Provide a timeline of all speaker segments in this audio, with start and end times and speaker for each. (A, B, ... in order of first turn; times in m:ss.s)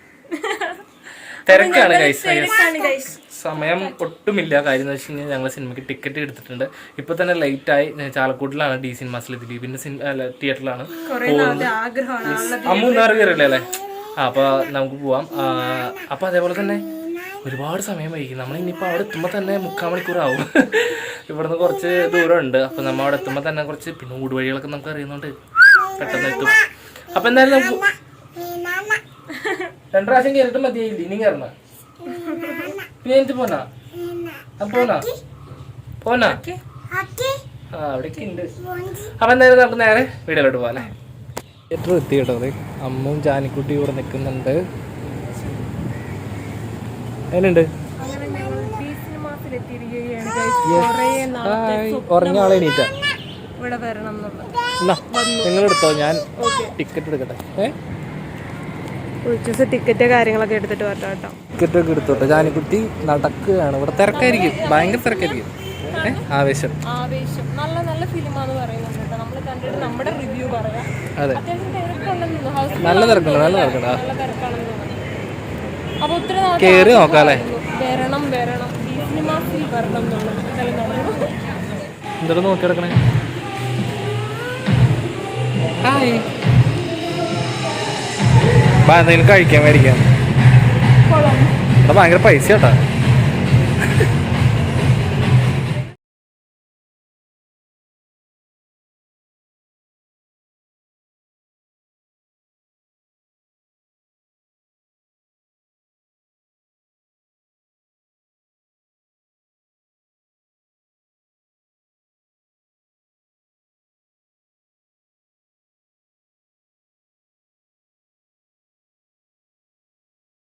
0:00.3-0:00.8 A
0:01.5-0:04.0 A
0:01.5-0:11.7 B
0:11.0-0:13.5 A
0:12.2-0:16.8 B
0:17.4-0:25.3 B
0:25.9-0:27.9 B
0:26.1-0:26.5 A
0:29.3-0:29.7 A
0:29.9-0:31.5 B
0:32.0-0:32.8 A
0:33.0-0:33.7 B
0:34.6-0:35.1 B
0:36.0-0:36.4 B
0:36.2-0:36.6 A
0:37.7-0:40.9 B
0:41.7-0:44.6 B
0:47.3-0:47.7 B
0:48.0-0:52.7 A
0:50.6-0:52.9 B
0:53.6-0:54.5 A
0:54.8-0:57.8 B
0:55.1-0:55.6 A
0:56.4-0:56.7 A
0:59.2-1:01.4 A
1:01.5-1:06.8 B
1:04.0-1:06.3 A
1:06.9-1:15.1 A
1:12.8-1:14.0 B
1:16.0-1:21.6 A
1:16.6-1:17.4 B
1:22.2-1:23.0 B
1:25.8-1:26.2 B
1:28.8-1:30.0 B
1:31.1-1:31.6 A
1:31.8-1:32.8 B